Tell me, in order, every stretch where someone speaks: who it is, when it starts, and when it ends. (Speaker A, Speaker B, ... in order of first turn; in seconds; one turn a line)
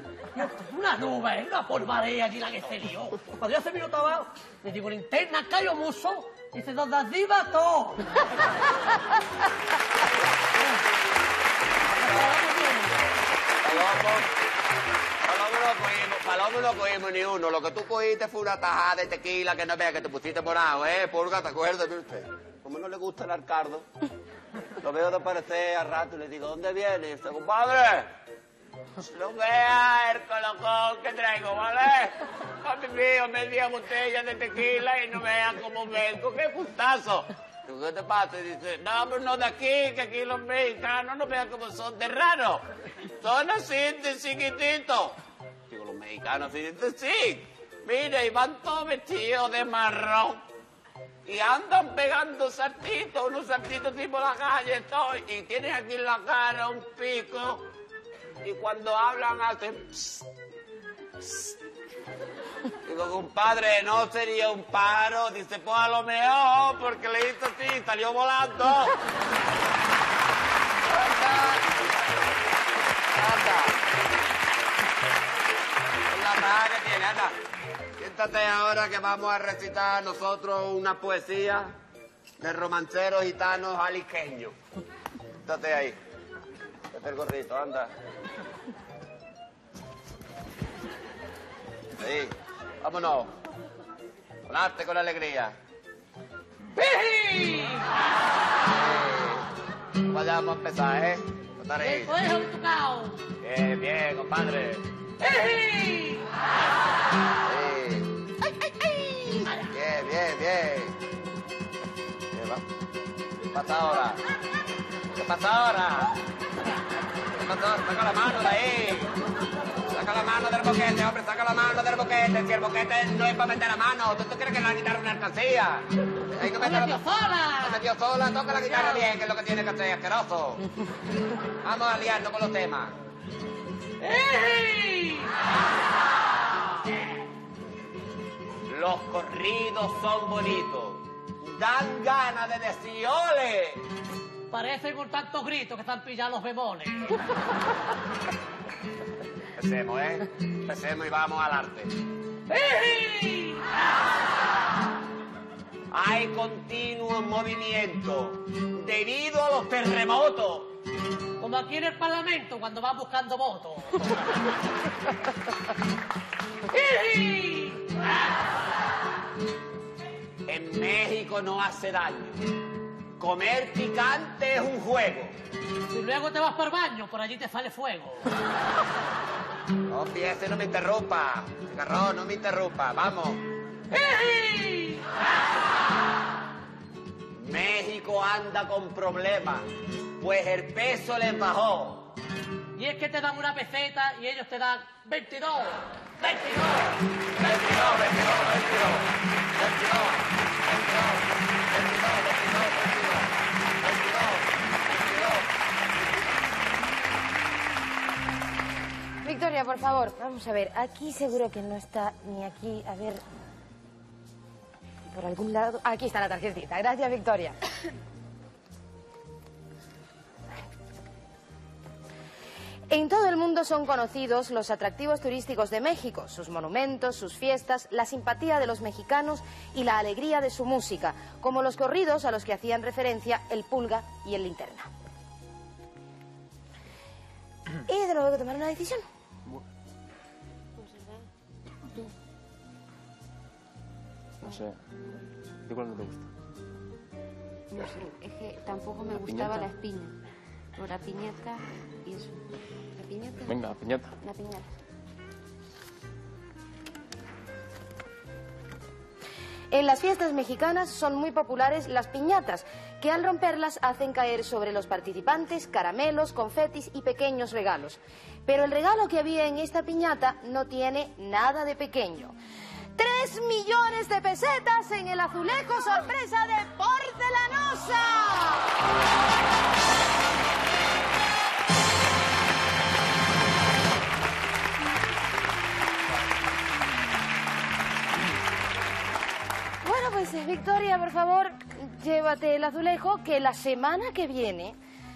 Speaker A: 0.3-8.0
Speaker B: 11.9-12.4
Speaker A: 12.0-12.9
Speaker B: 13.6-14.3
Speaker B: 15.2-23.9
Speaker B: 24.8-28.1
Speaker B: 29.0-42.6
Speaker B: 43.2-45.2
Speaker B: 45.7-50.4
Speaker B: 51.3-57.7
Speaker B: 58.4-60.3
Speaker B: 61.2-61.5
Speaker B: 62.9-68.9
Speaker B: 70.9-71.8
Speaker B: 73.2-73.8
Speaker B: 76.1-77.3
Speaker B: 78.0-81.7
Speaker B: 82.4-84.5
Speaker B: 85.4-86.0
Speaker B: 86.9-87.9
Speaker B: 92.0-93.3
Speaker B: 94.5-95.5
Speaker A: 96.8-97.9
Speaker B: 98.7-99.5
Speaker B: 100.1-102.2
Speaker A: 101.8-103.2
Speaker B: 103.4-104.8
Speaker A: 105.2-106.2
Speaker B: 107.5-108.1
Speaker A: 108.7-109.7
Speaker B: 109.7-110.9
Speaker B: 112.3-112.6
Speaker B: 113.5-114.2
Speaker B: 115.2-116.1
Speaker B: 117.4-119.1
Speaker B: 119.9-130.6
Speaker A: 126.5-127.8
Speaker B: 131.6-132.9
Speaker A: 134.0-135.3
Speaker B: 138.7-143.8
Speaker A: 144.5-147.2
Speaker B: 149.6-151.9
Speaker A: 152.5-153.6
Speaker B: 155.9-160.7
Speaker A: 161.4-164.0
Speaker A: 166.7-168.0
Speaker B: 170.5-172.5
Speaker B: 173.2-175.3
Speaker A: 175.9-178.2
Speaker B: 179.9-183.4
Speaker A: 183.9-185.0
Speaker B: 187.4-189.7
Speaker B: 190.2-192.1
Speaker A: 192.8-196.9
Speaker B: 197.4-200.2
Speaker B: 200.7-201.2
Speaker B: 201.7-203.2
Speaker B: 203.8-205.4
Speaker C: 209.2-213.2
Speaker C: 215.1-217.6
Speaker C: 222.9-234.9
Speaker C: 237.9-239.0
Speaker D: 240.8-241.3
Speaker E: 244.4-244.9
Speaker E: 245.6-246.3
Speaker D: 247.7-250.2
Speaker E: 249.1-249.7
Speaker D: 250.8-254.7
Speaker E: 253.5-254.1
Speaker C: 259.7-272.3
Speaker C: 273.0-278.6
Speaker C: 289.8-294.8